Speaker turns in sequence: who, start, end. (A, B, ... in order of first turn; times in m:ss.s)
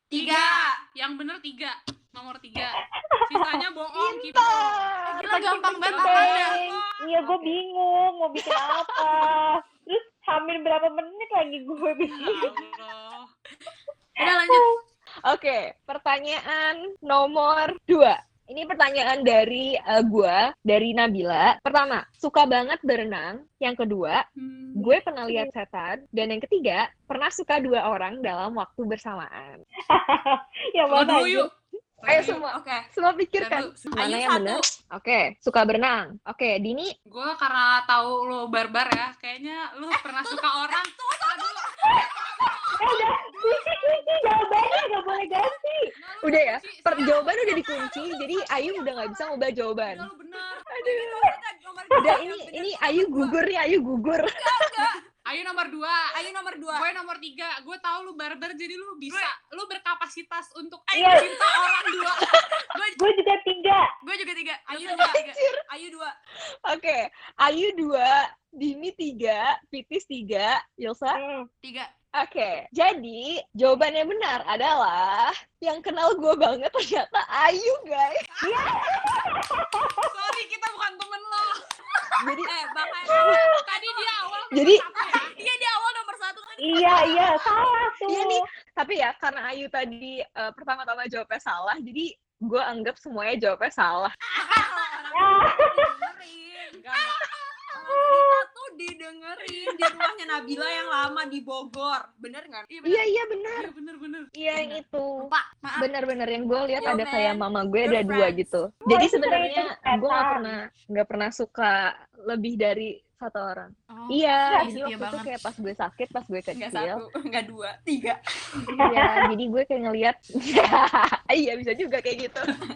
0:00.1-0:00.8 A
0:00.1-0:07.4 B
0:03.3-0:03.6 C
0:03.9-0:06.3 D
0:05.1-0:06.6 E
0:05.9-0:12.5 C
0:12.1-0:13.3 B
0:14.2-0:14.6 E
0:14.3-0:14.6 C
0:15.3-0:24.2 D
0:24.4-0:24.9 B
0:24.8-0:29.6 D
0:29.9-0:31.5 C
0:30.9-0:31.5 B
0:32.0-0:32.4 B
0:32.1-0:36.9 D
0:32.2-0:32.9 A
0:33.4-0:33.9 B
0:33.9-0:34.7 A
0:37.1-0:44.2 B
0:42.8-0:45.9 C
0:46.0-0:48.4 B
0:46.2-0:50.1 D
0:49.8-0:50.6 B
0:50.7-0:53.4 A
0:50.7-0:51.3 D
0:51.9-0:52.2 C
0:52.0-0:54.9 D
0:54.4-0:55.0 A
0:55.3-1:02.4 B
0:56.1-0:56.9 A
1:00.9-1:01.4 C
1:02.6-1:03.0 E
1:03.0-1:03.8 C
1:04.0-1:05.4 E
1:04.7-1:06.1 A
1:04.8-1:05.6 D
1:06.6-1:11.2 D
1:11.2-1:11.4 C
1:11.6-1:11.9 E
1:12.2-1:19.0 D
1:18.4-1:20.1 C
1:20.1-1:21.6 B
1:22.2-1:22.5 D
1:22.4-1:23.5 A
1:23.5-1:25.3 B
1:24.5-1:24.8 D
1:25.0-1:27.6 E
1:26.6-1:28.4 C
1:28.1-1:34.1 D
1:34.4-1:36.8 A
1:35.1-1:35.9 C
1:36.8-1:37.3 B
1:37.7-1:42.7 A
1:42.7-1:43.0 E
1:42.8-1:43.7 D
1:43.5-1:44.8 B
1:44.4-1:57.0 D
1:45.2-1:45.8 E
1:46.8-1:48.6 A
1:48.9-1:50.6 C
1:53.9-1:55.3 E
1:54.5-1:54.7 C
1:56.5-1:58.8 A
1:58.8-2:02.5 D
1:58.8-1:59.3 C